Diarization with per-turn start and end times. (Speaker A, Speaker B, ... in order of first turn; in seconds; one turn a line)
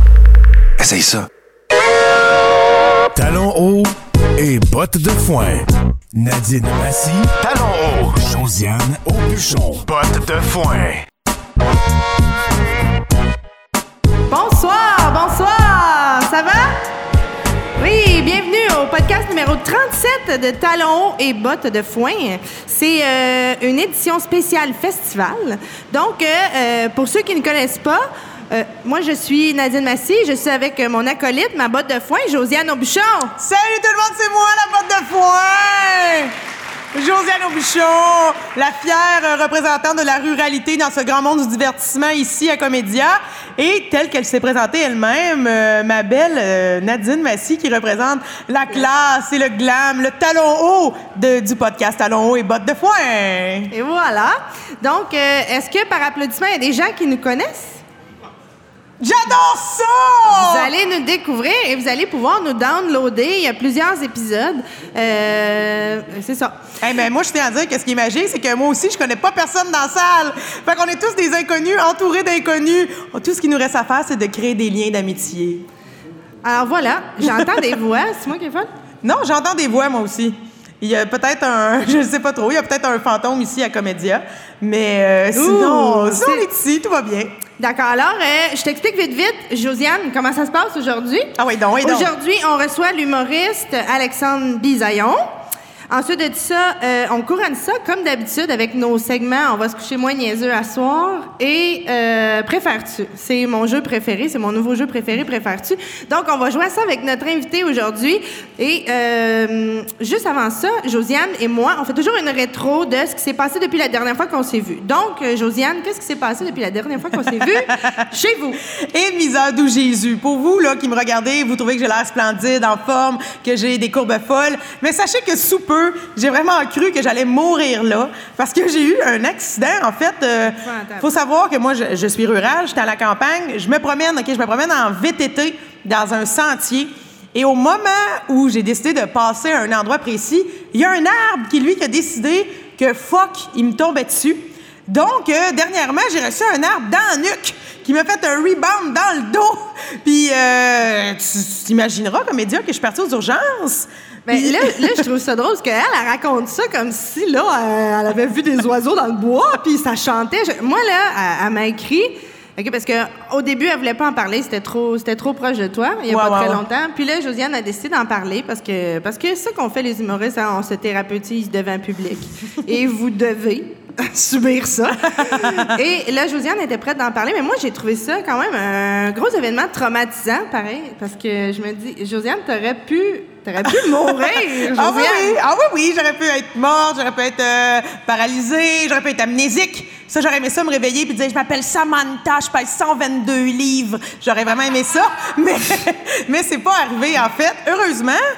Speaker A: 0.8-1.3
Speaker A: 3.1-11.1
Speaker B: 14.3-16.9
Speaker B: 17.8-33.4
Speaker C: 33.4-36.4
Speaker C: 36.9-53.7
Speaker B: 53.7-57.8
Speaker C: 59.0-60.7
Speaker B: 60.3-66.6
Speaker C: 66.8-75.7
Speaker B: 76.5-78.7
Speaker C: 79.0-87.4
Speaker B: 85.3-86.5
Speaker B: 87.6-95.3
Speaker C: 91.4-92.1
Speaker B: 95.9-118.6
Speaker C: 117.3-117.7
Speaker C: 118.7-155.0
Speaker B: 130.5-131.1
Speaker B: 154.3-185.4
Speaker C: 166.1-166.6
Speaker C: 175.0-175.7
Speaker C: 183.7-198.2